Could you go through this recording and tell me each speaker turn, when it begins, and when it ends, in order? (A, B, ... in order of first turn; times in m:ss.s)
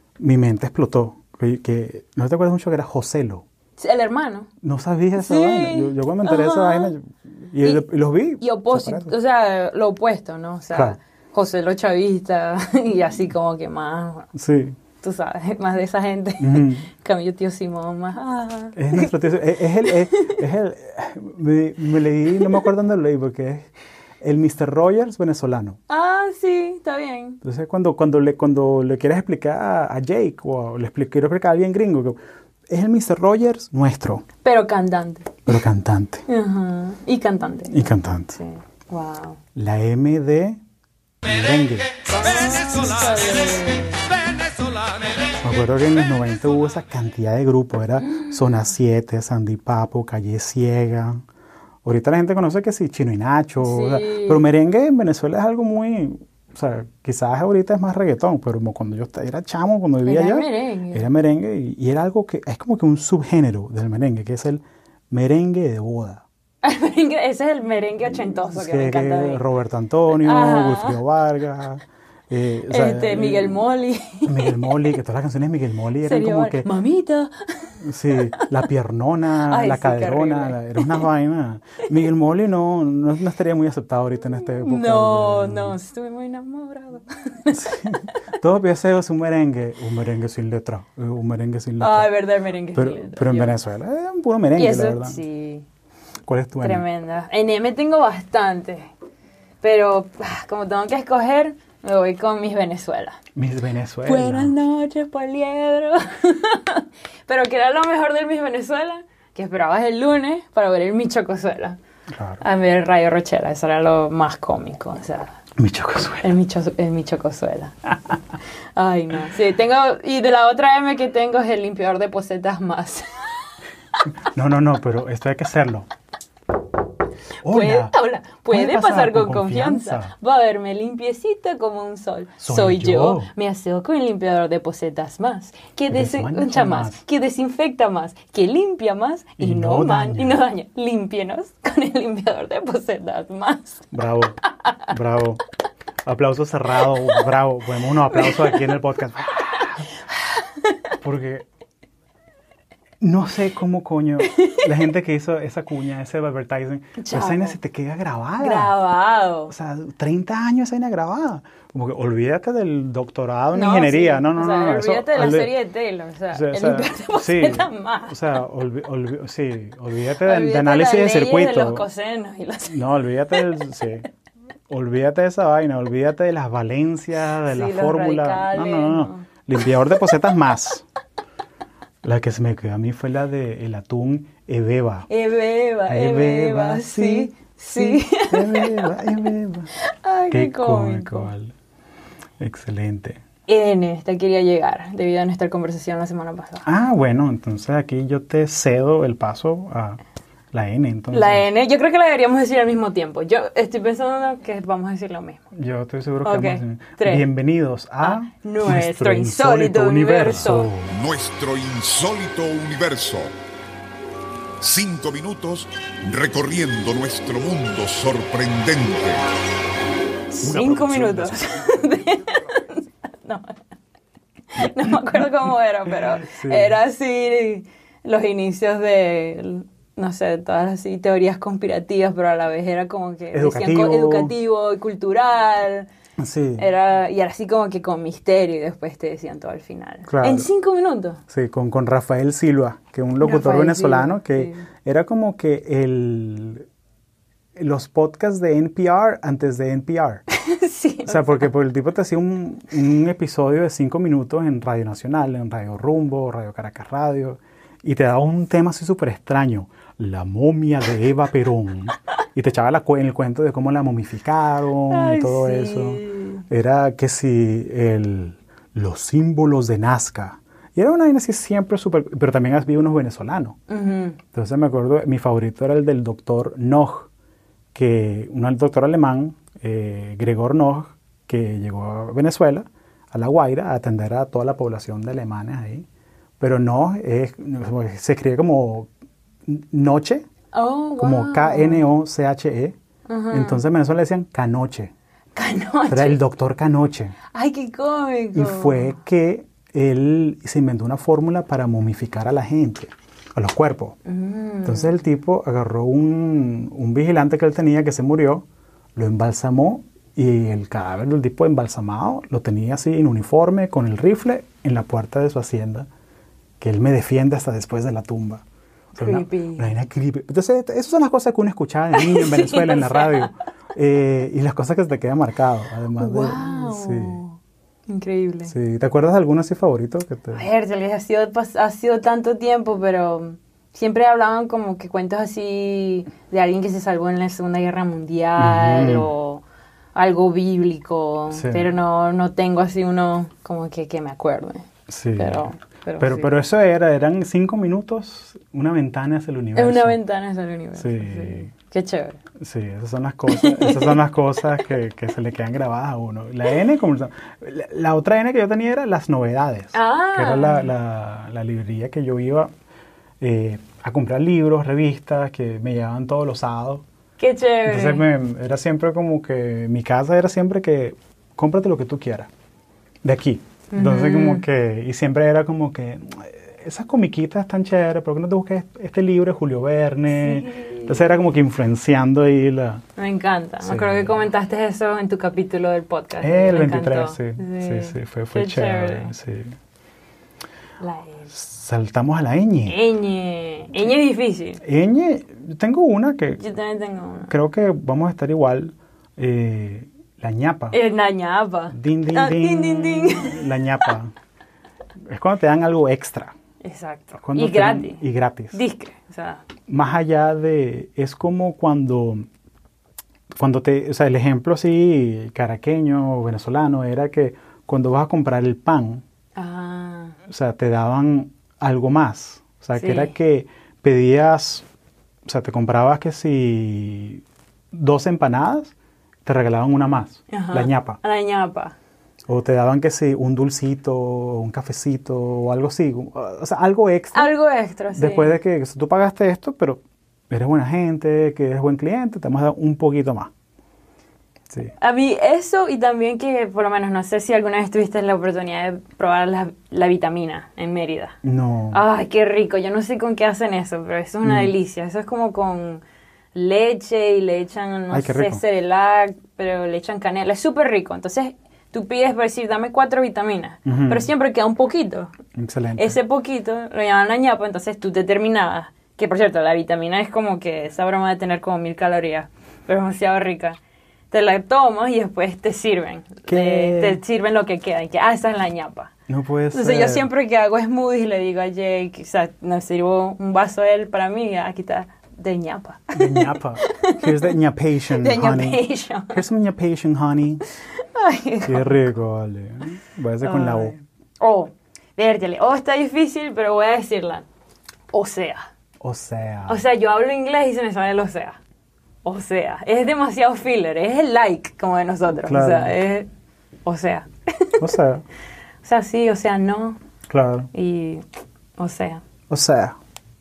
0:00.2-0:03.4 A
0:03.8-0:04.5 B
0:04.6-0:09.1 A
0:05.2-0:06.9 B
0:08.4-0:14.3 B
0:10.7-0:11.0 A
0:14.3-0:14.8 A
0:15.0-0:19.1 B
0:16.4-0:16.9 A
0:18.8-0:23.7 A
0:24.2-0:25.8 A
0:25.9-0:27.4 B
0:27.4-0:34.2 A
0:34.4-0:35.5 B
0:35.5-0:36.2 A
0:36.3-0:39.4 B
0:37.7-0:38.4 A
0:39.6-0:40.6 A
0:41.2-0:42.0 A
0:42.1-0:44.1 B
0:45.4-0:51.2 A
0:51.8-1:06.2 A
0:53.6-0:54.4 B
1:00.0-1:01.1 B
1:06.6-1:09.4 B
1:08.5-1:13.7 A
1:10.1-1:11.0 B
1:12.7-1:14.8 B
1:14.2-1:16.7 A
1:16.0-1:17.7 B
1:17.8-1:25.8 A
1:19.5-1:21.0 B
1:24.4-1:27.9 B
1:27.5-1:32.2 A
1:31.8-1:33.6 B
1:32.7-1:35.2 A
1:34.6-1:35.6 B
1:36.3-1:36.8 A
1:36.6-1:38.9 B
1:39.6-1:43.2 B
1:43.4-1:44.5 A
1:44.1-1:51.8 B
1:52.1-1:52.4 A
1:52.4-1:55.4 B
1:55.6-1:56.3 A
1:56.2-1:57.9 B
1:58.8-2:03.1 B
2:04.2-2:05.9 A
2:07.4-2:10.1 A
2:07.4-2:23.9 B
2:12.4-2:13.3 A
2:15.9-2:17.0 A
2:19.4-2:20.4 A
2:23.9-2:24.4 A
2:24.9-2:25.4 A
2:26.0-2:29.9 A
2:28.2-2:28.5 B
2:31.0-2:31.5 A
2:33.0-2:38.8 A
2:34.3-2:34.6 B
2:37.0-2:37.6 B
2:38.4-2:39.5 B
2:39.5-2:45.6 A
2:43.5-2:48.3 B
2:46.3-2:51.9 A
2:50.2-2:53.5 B
2:52.7-2:54.0 A
2:54.7-3:00.8 A
2:57.4-2:59.3 B
3:02.0-3:05.1 A
3:05.1-3:09.0 B
3:05.9-3:09.7 A
3:09.8-3:11.3 B
3:10.3-3:11.5 A
3:12.4-3:13.2 A
3:13.5-3:16.7 B
3:16.6-3:20.0 A
3:20.5-3:21.5 A
3:21.1-3:25.4 B
3:25.5-3:30.9 A
3:26.2-3:27.3 B
3:28.0-3:30.7 B
3:30.9-3:33.3 C
3:34.6-3:39.3 C
3:40.3-3:41.3 A
3:40.4-3:41.5 C
3:40.4-3:43.6 B
3:44.5-3:55.9 B
3:45.9-3:46.8 A
3:53.3-3:54.4 A
3:56.2-3:56.7 A
3:56.6-4:01.2 B
4:00.1-4:00.5 A
4:01.3-4:06.7 A
4:03.2-4:04.7 B
4:07.6-4:10.2 A
4:10.4-4:11.5 B
4:11.1-4:33.6 A
4:24.9-4:26.4 B
4:33.7-4:34.2 B
4:34.3-4:37.1 A
4:37.8-4:45.9 A
4:46.4-4:48.9 A
4:49.5-4:50.2 A
4:50.5-4:51.8 B
4:51.0-4:52.8 A
4:53.1-4:53.6 B
4:53.3-4:54.9 A
4:55.4-4:56.2 B
4:55.9-4:57.2 A
4:57.3-4:59.0 B
4:58.3-5:04.0 A
5:04.1-5:05.0 B
5:04.6-5:08.4 A
5:09.0-5:15.9 A
5:16.6-5:18.4 A
5:19.0-5:27.2 A
5:19.0-5:19.8 B
5:22.0-5:23.3 B
5:26.0-5:28.5 B
5:28.5-5:30.5 A
5:30.3-5:39.4 B
5:38.4-5:39.1 A
5:40.0-5:46.4 B
5:41.3-5:41.7 A
5:44.9-5:50.0 A
5:49.6-5:52.2 B
5:50.8-5:51.5 A
5:52.4-6:02.5 A
5:53.3-5:54.0 B
5:59.7-6:00.7 B
6:03.2-6:06.8 A
6:07.2-6:08.1 B
6:07.7-6:12.3 A
6:13.0-6:22.8 A
6:13.7-6:14.4 B
6:20.2-6:21.0 B
6:23.0-6:29.1 B
6:23.6-6:24.2 A
6:26.2-6:29.5 A
6:30.8-6:31.3 B
6:31.3-6:32.8 A
6:32.7-6:34.6 B
6:34.6-6:36.4 A
6:36.4-6:37.3 B
6:37.3-6:40.8 A
6:40.7-6:43.5 B
6:41.7-6:44.1 A
6:45.1-6:46.4 A
6:46.6-6:49.4 B
6:47.2-6:48.6 A
6:49.7-6:52.3 A
6:53.3-6:59.0 A
6:59.4-7:00.2 B
7:00.3-7:04.7 A
7:02.8-7:03.1 B
7:05.2-7:08.7 A
7:09.2-7:11.0 A
7:10.3-7:11.8 B
7:12.3-7:17.3 A
7:17.1-7:18.4 B
7:17.9-7:23.3 A
7:24.8-7:31.2 B
7:31.2-7:31.8 A
7:31.7-7:35.8 B
7:34.2-7:34.5 A
7:36.3-7:45.1 B
7:37.9-7:38.4 A
7:43.6-7:44.1 A
7:45.4-7:46.0 A
7:45.8-7:53.6 B
7:54.1-7:58.9 B
7:56.3-7:57.0 A
7:59.1-8:00.1 A
7:59.5-8:07.3 B
8:05.9-8:10.4 A
8:07.9-8:09.2 B
8:10.8-8:11.8 B
8:11.4-8:13.7 A
8:13.2-8:17.2 B
8:17.9-8:18.5 B
8:18.8-8:19.6 A
8:19.5-8:21.4 B
8:22.0-8:26.1 B
8:25.2-8:25.8 A
8:26.6-8:27.6 B
8:27.6-8:28.0 A
8:28.6-8:29.8 B
8:30.1-8:30.5 A
8:30.5-8:31.0 B
8:31.6-8:32.0 B
8:32.3-8:32.8 A